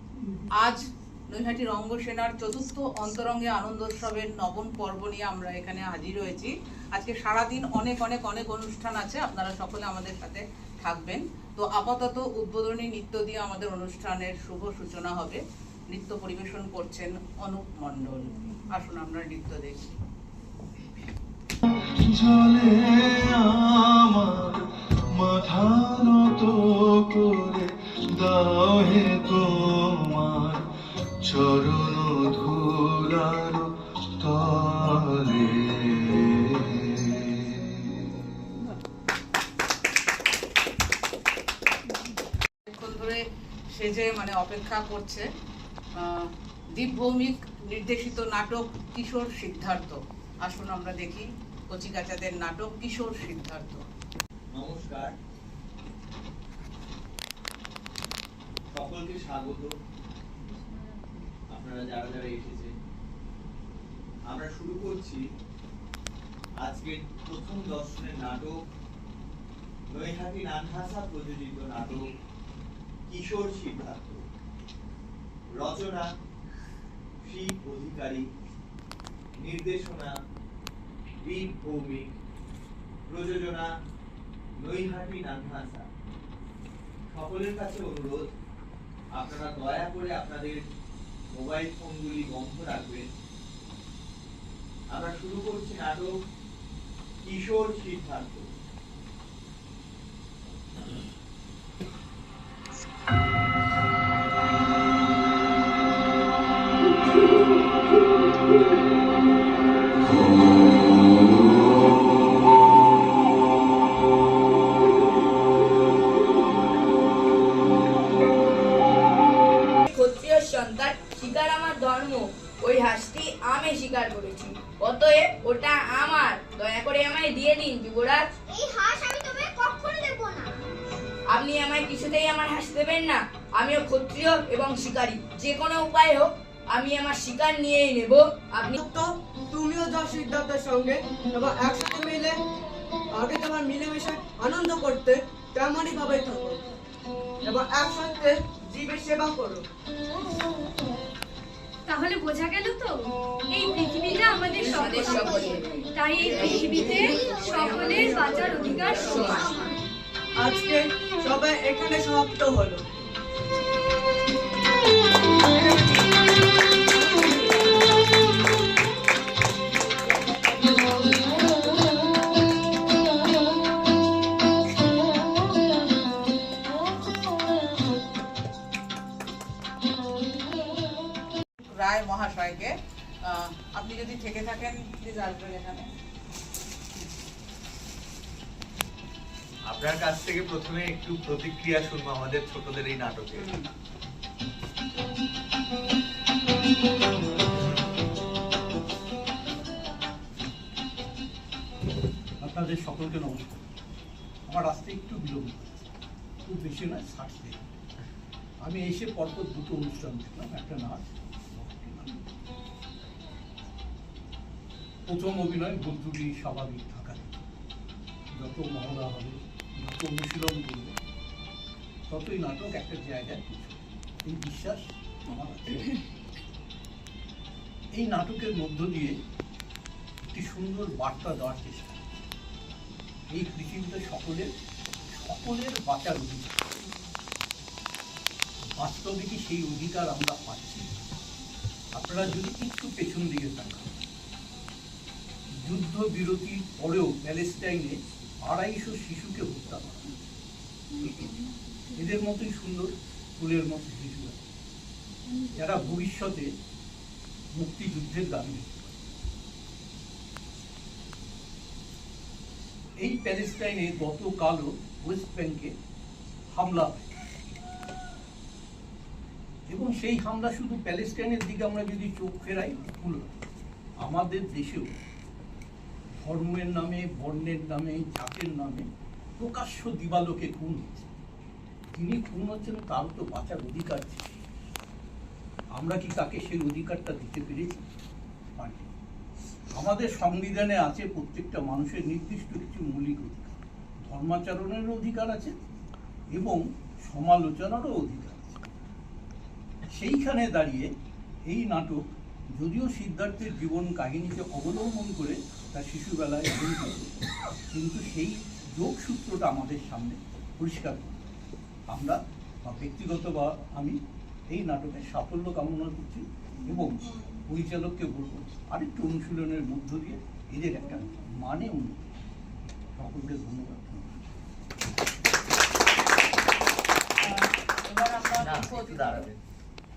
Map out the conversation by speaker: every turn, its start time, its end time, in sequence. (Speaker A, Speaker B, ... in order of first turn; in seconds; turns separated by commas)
Speaker A: 0.6-20.0, Speaker B: 22.2-22.7, Speaker B: 25.2-26.5, Speaker B: 28.8-29.4, Speaker B: 30.1-30.6, Speaker B: 31.3-32.5, Speaker B: 33.2-33.6, Speaker A: 42.7-43.2, Speaker A: 43.8-45.2, Speaker A: 46.0-53.8, Speaker C: 54.5-55.1, Speaker C: 58.7-59.7, Speaker C: 61.5-62.7, Speaker C: 64.3-65.2, Speaker C: 66.6-68.5, Speaker C: 69.9-72.0, Speaker C: 73.1-74.2, Speaker C: 75.6-76.1, Speaker C: 77.2-78.2, Speaker C: 79.4-80.1, Speaker C: 81.2-82.1, Speaker C: 83.1-83.7, Speaker C: 84.6-85.8, Speaker C: 87.1-88.2, Speaker C: 89.2-90.6, Speaker C: 91.3-93.1, Speaker C: 94.9-96.1, Speaker C: 97.2-98.4, Speaker D: 119.9-128.3, Speaker E: 128.5-130.5, Speaker D: 131.3-138.8, Speaker F: 138.8-142.3, Speaker F: 143.2-146.6, Speaker F: 147.4-149.6, Speaker E: 151.9-159.7, Speaker D: 154.7-155.6, Speaker F: 160.4-162.8, Speaker A: 181.7-182.7, Speaker A: 183.3-185.9, Speaker C: 189.7-193.5, Speaker G: 202.4-203.6, Speaker G: 204.5-205.9, Speaker G: 206.4-207.6, Speaker G: 208.6-212.3, Speaker G: 215.1-217.4, Speaker G: 218.3-220.9, Speaker G: 222.1-225.9, Speaker G: 227.9-229.2, Speaker G: 230.3-232.0, Speaker G: 233.3-234.5, Speaker G: 235.1-236.6, Speaker G: 238.8-241.0, Speaker G: 241.9-243.9, Speaker G: 245.6-250.1, Speaker G: 251.0-251.3, Speaker G: 251.9-254.4, Speaker G: 255.5-256.5, Speaker G: 257.6-259.0, Speaker G: 263.0-265.7, Speaker G: 266.5-267.1, Speaker G: 269.7-273.3, Speaker G: 274.0-274.9, Speaker G: 276.2-280.9, Speaker G: 281.9-284.3, Speaker G: 285.8-287.8, Speaker G: 288.6-288.9, Speaker G: 289.8-295.6, Speaker G: 296.3-298.6, Speaker G: 299.9-300.9, Speaker G: 301.5-307.1, Speaker G: 307.7-311.3, Speaker G: 311.9-322.2, Speaker G: 323.0-324.2, Speaker A: 327.3-329.3, Speaker C: 328.4-329.4